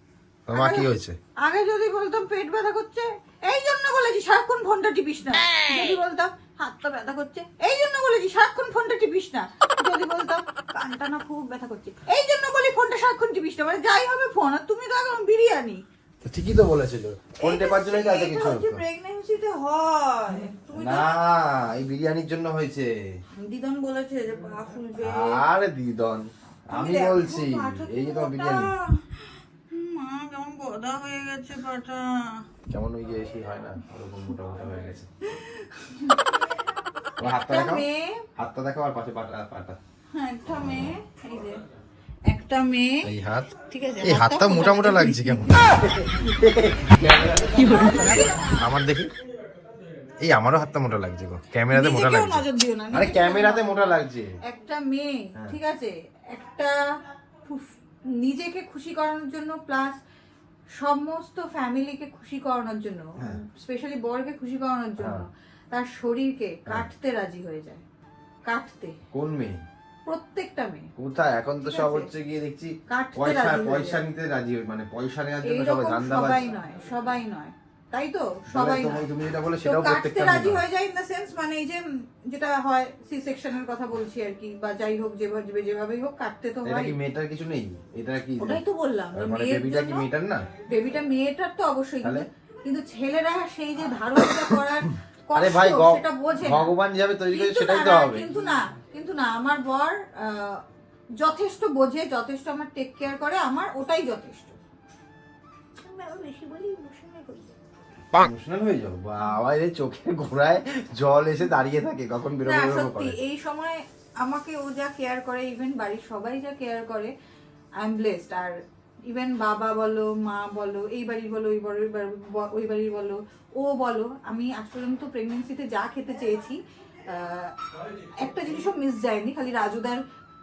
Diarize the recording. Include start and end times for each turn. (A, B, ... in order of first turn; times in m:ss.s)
0:00.5-0:01.1 A
0:00.5-0:00.9 B
0:01.4-0:15.8 B
0:16.2-0:18.8 A
0:17.4-0:21.1 B
0:20.7-0:22.9 A
0:23.4-0:25.4 B
0:25.0-0:28.7 A
0:26.7-0:32.4 B
0:32.7-0:35.1 A
0:35.3-0:36.2 B
0:37.2-0:37.8 A
0:37.2-0:38.2 B
0:38.4-0:39.8 A
0:40.1-0:41.6 B
0:40.5-0:40.9 A
0:42.3-0:43.1 B
0:43.0-0:43.5 A
0:43.7-0:45.4 B
0:44.0-0:49.1 A
0:47.0-0:48.7 B
0:50.2-0:54.3 A
0:51.7-0:53.7 B
0:54.5-0:56.8 B
0:57.4-1:00.0 B
1:00.8-1:07.8 B
1:05.0-1:05.2 A
1:08.5-1:08.9 B
1:09.1-1:09.6 A
1:10.1-1:10.8 B
1:11.0-1:16.4 A
1:11.6-1:12.1 B
1:12.9-1:14.0 B
1:15.4-1:19.0 B
1:18.5-1:20.6 A
1:19.6-1:26.9 B
1:26.6-1:28.6 A
1:28.4-1:30.1 B
1:29.1-1:30.4 A
1:30.7-1:36.7 B
1:35.3-1:38.3 A
1:37.3-1:40.6 B
1:41.2-1:44.6 B
1:45.8-1:47.5 B
1:48.1-1:53.1 A
1:52.4-1:57.1 B
1:57.8-1:58.5 B
1:59.1-2:06.6 B
2:07.1-2:07.5 B
2:08.2-2:10.0 B